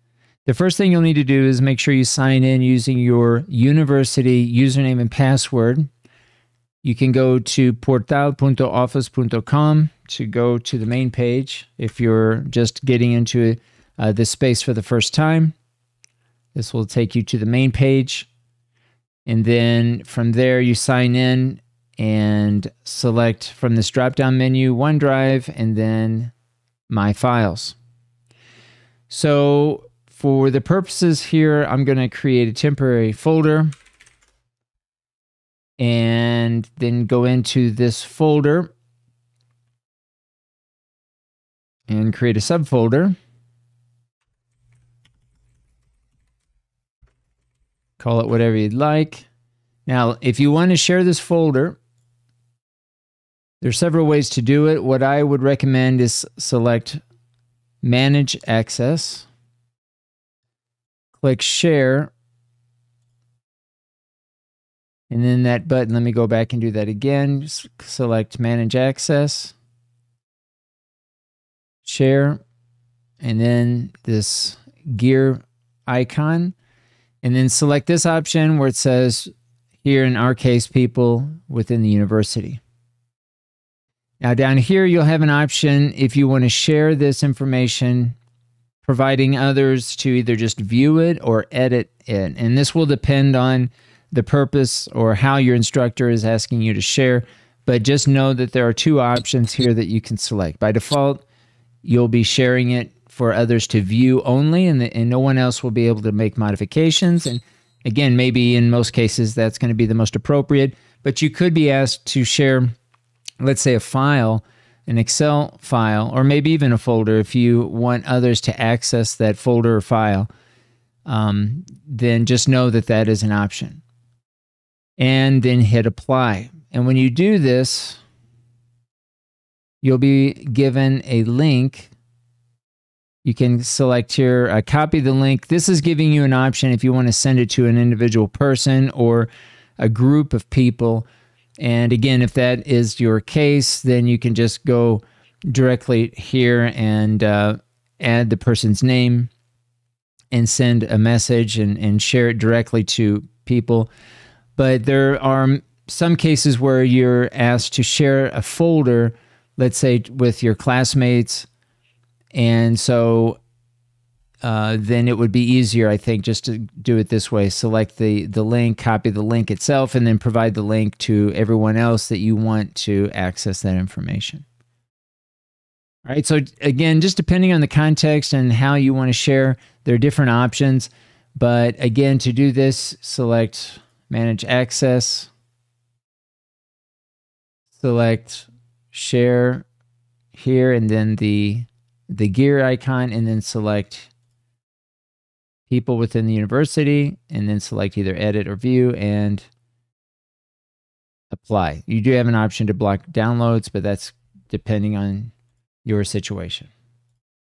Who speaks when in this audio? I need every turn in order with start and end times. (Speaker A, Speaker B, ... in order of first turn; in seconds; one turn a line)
Speaker A: 0.5-5.9
Speaker A: 6.8-15.6
Speaker A: 16.6-18.3
Speaker A: 19.3-26.3
Speaker A: 26.9-27.8
Speaker A: 29.1-33.7
Speaker A: 35.8-38.7
Speaker A: 41.9-43.2
Speaker A: 48.0-49.3
Speaker A: 49.9-51.8
Speaker A: 53.6-57.0
Speaker A: 57.8-59.3
Speaker A: 61.1-62.1
Speaker A: 65.1-69.5
Speaker A: 71.8-72.4
Speaker A: 73.2-76.6
Speaker A: 77.2-79.3
Speaker A: 79.8-82.6
Speaker A: 84.2-88.2
Speaker A: 88.8-101.2
Speaker A: 101.8-112.7
Speaker A: 113.4-120.3
Speaker A: 121.1-123.8
Speaker A: 125.0-128.0
Speaker A: 129.8-131.9
Speaker A: 133.2-141.1
Speaker A: 141.6-149.3
Speaker A: 150.3-153.9
Speaker A: 154.6-161.5
Speaker A: 162.3-163.4
Speaker A: 164.4-174.4
Speaker A: 176.1-185.3
Speaker A: 187.8-189.7
Speaker A: 190.3-194.1
Speaker A: 195.7-199.5
Speaker A: 201.3-205.3
Speaker A: 205.8-206.7